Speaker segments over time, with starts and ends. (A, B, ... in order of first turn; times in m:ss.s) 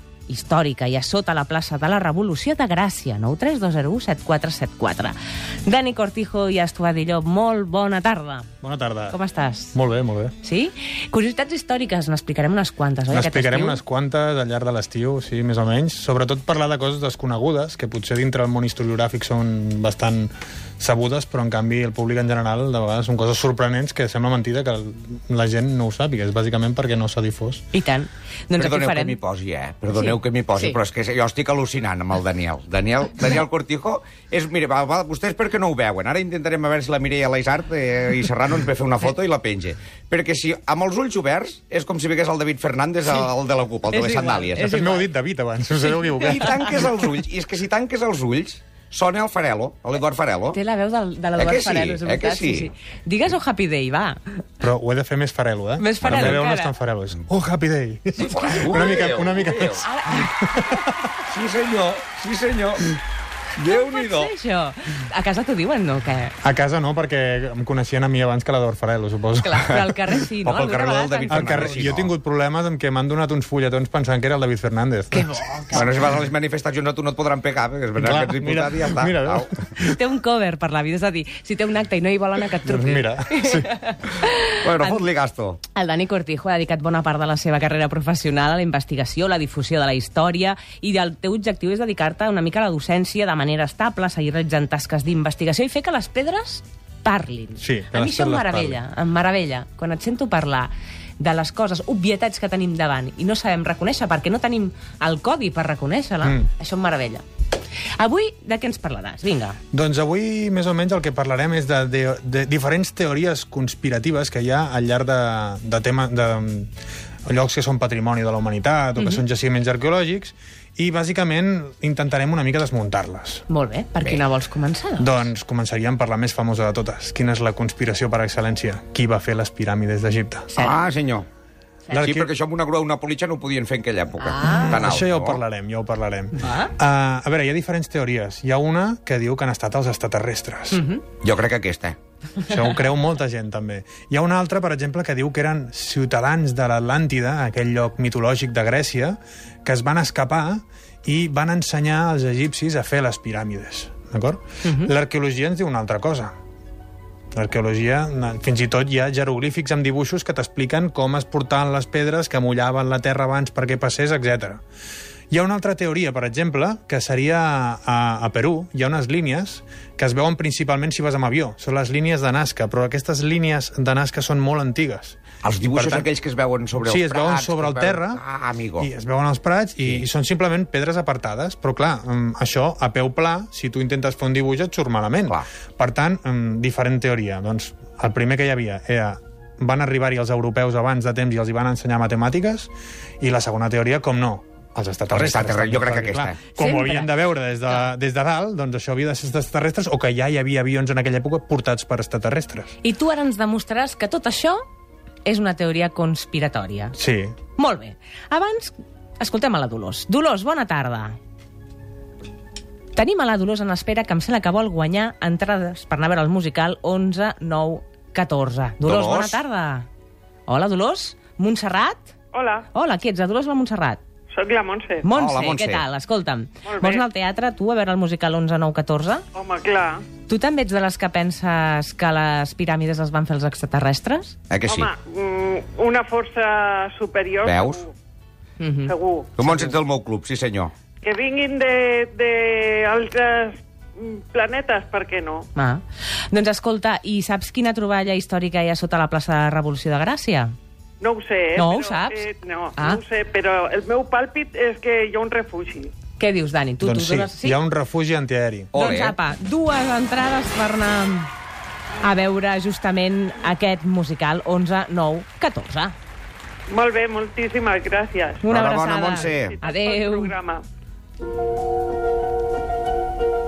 0:00.3-0:08.5 A
0:08.6-0:09.2 B
0:09.1-0:09.8 A
0:09.7-0:10.3 B
0:10.4-0:13.8 A
0:13.1-0:27.6 B
0:27.7-0:29.2 A
0:28.6-0:44.8 C
0:29.9-0:30.8 A
0:43.9-0:45.1 A
0:44.5-0:46.9 B
0:46.2-0:50.6 C
0:50.5-0:54.2 A
0:51.4-0:52.7 C
0:54.6-1:01.0 B
0:55.8-0:56.7 A
0:56.0-0:56.4 C
0:58.2-0:59.8 C
0:59.8-1:00.8 A
1:01.3-1:03.0 C
1:03.6-1:04.3 C
1:03.6-1:06.3 A
1:06.4-1:09.7 B
1:09.4-1:11.9 A
1:10.4-1:12.1 C
1:11.3-1:15.6 B
1:15.1-1:16.0 A
1:15.7-1:19.6 C
1:18.0-1:20.0 B
1:19.8-1:25.0 A
1:22.6-1:23.7 B
1:24.6-1:25.6 C
1:25.7-1:47.2 A
1:37.6-1:38.8 B
1:48.0-1:49.6 A
1:49.7-1:56.7 B
1:57.2-2:03.4 B
1:59.0-1:59.2 A
2:03.5-2:05.3 A
2:05.0-2:10.5 B
2:10.5-2:10.8 A
2:10.6-2:11.2 C
2:11.9-2:12.3 B
2:11.9-2:15.4 C
2:14.2-2:14.8 A
2:14.4-2:20.8 B
2:16.4-2:16.7 A
2:20.7-2:21.0 A
2:21.2-2:22.0 C
2:22.4-2:36.3 B
2:34.6-2:34.9 A
2:37.3-2:44.6 B
2:45.3-2:56.1 B
2:55.4-2:58.9 C
2:56.8-2:58.2 B
2:58.8-3:22.7 B
3:15.1-3:16.4 C
3:16.5-3:17.1 A
3:22.8-3:24.6 A
3:25.2-3:27.0 A
3:27.0-3:27.3 B
3:27.6-3:31.2 A
3:32.9-3:39.9 A
3:38.8-3:39.4 C
3:40.5-3:42.1 A
3:42.3-3:42.6 D
3:42.7-3:44.0 A
3:44.3-3:45.0 D
3:45.0-3:49.2 A
3:45.1-3:45.8 C
3:46.6-3:47.0 D
3:49.3-3:50.0 D
3:50.3-3:54.3 A
3:54.5-3:54.9 C
3:54.6-3:57.9 D
3:57.4-3:57.8 C
3:58.6-3:58.9 A
3:58.9-3:59.3 D
3:59.4-4:00.7 C
3:59.5-3:59.7 A
4:01.0-4:05.5 D
4:05.5-4:10.5 A
4:11.0-4:15.9 D
4:11.6-4:12.2 A
4:12.8-4:13.0 A
4:16.2-4:17.6 A
4:16.8-4:18.7 B
4:18.7-4:19.2 C
4:18.7-4:21.3 A
4:22.0-4:25.9 A
4:26.7-4:28.5 D
4:28.4-4:30.3 A
4:28.5-4:29.6 C
4:29.2-4:30.6 D